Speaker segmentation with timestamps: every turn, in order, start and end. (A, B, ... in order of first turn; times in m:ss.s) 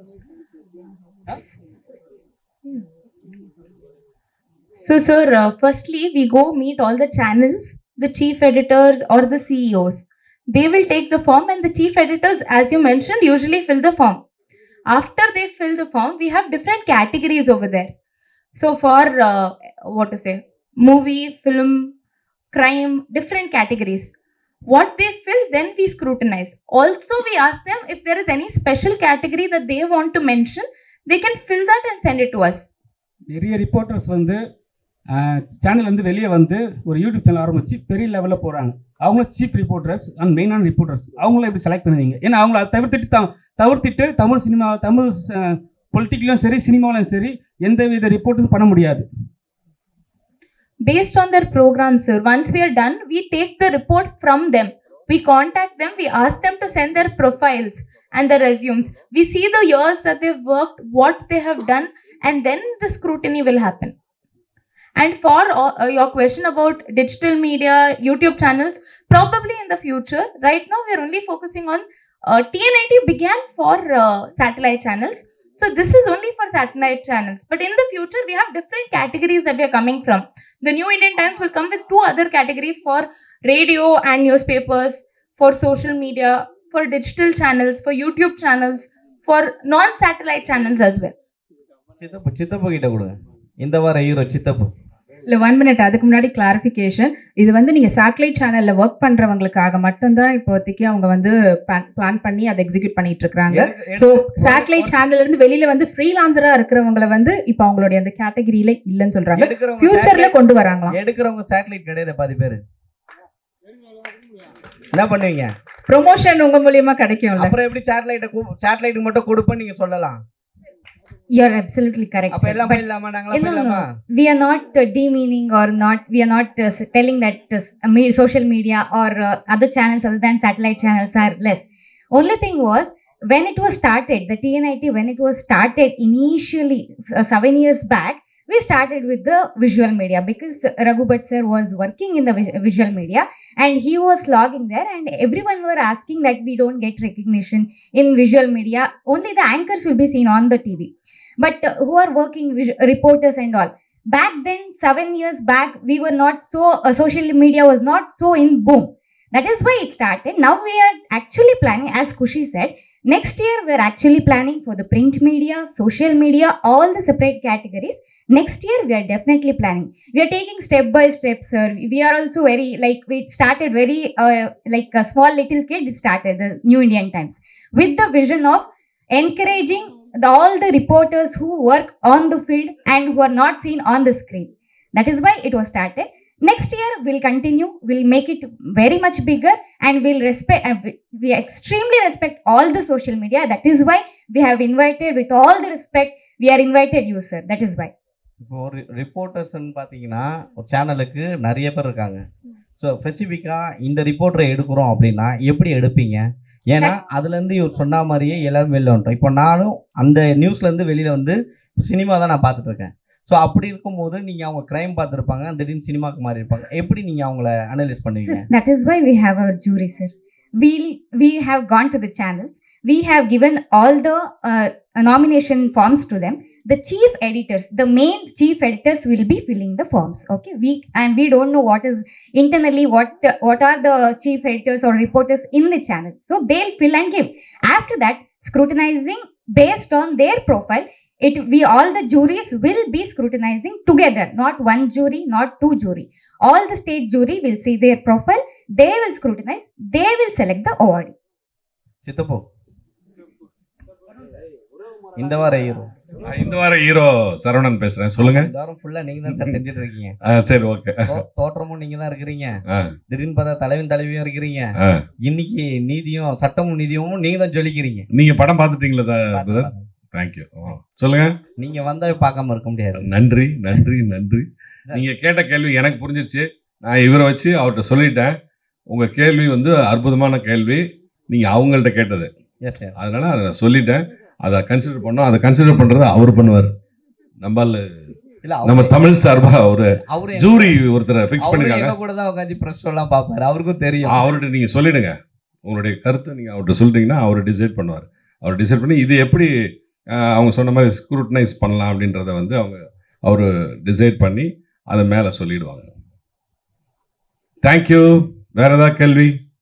0:04.8-0:14.2 A
0:14.9-0:17.9 A
0:18.6-0:21.9 A
0:22.5-0:24.1 A
0:24.7-0:32.7 A
0:33.3-0:34.4 B
0:35.1-0:49.1 B
0:50.8-1:04.0 A
1:05.0-1:31.2 A
1:32.0-1:34.7 C
1:35.3-1:51.0 D
1:43.5-1:44.9 C
1:49.4-1:50.3 C
1:50.9-1:52.6 C
1:54.9-1:55.5 C
1:55.9-1:57.6 D
1:57.4-2:00.2 C
2:01.3-3:17.9 E
2:02.3-2:03.9 C
3:18.4-3:22.2 C
3:22.8-3:38.5 C
3:38.2-4:11.2 E
4:12.0-4:12.4 C
4:15.2-4:15.9 C
4:16.2-4:18.5 F
4:18.2-4:20.2 C
4:19.3-4:19.6 F
4:20.2-4:21.2 F
4:21.1-4:28.1 C
4:22.7-4:23.0 F
4:24.8-4:25.0 F
4:28.1-4:31.4 F
4:29.4-4:29.9 C
4:31.6-4:33.1 C
4:33.0-4:38.4 F
4:38.9-4:42.3 F
4:42.6-4:43.0 C
4:43.0-4:46.7 F
4:47.4-4:47.9 F
4:48.4-4:49.0 C
4:48.6-4:52.0 F
4:50.1-4:50.8 C
4:51.4-4:54.3 C
4:54.0-4:59.5 F
5:00.2-5:05.9 F
5:07.6-5:09.4 F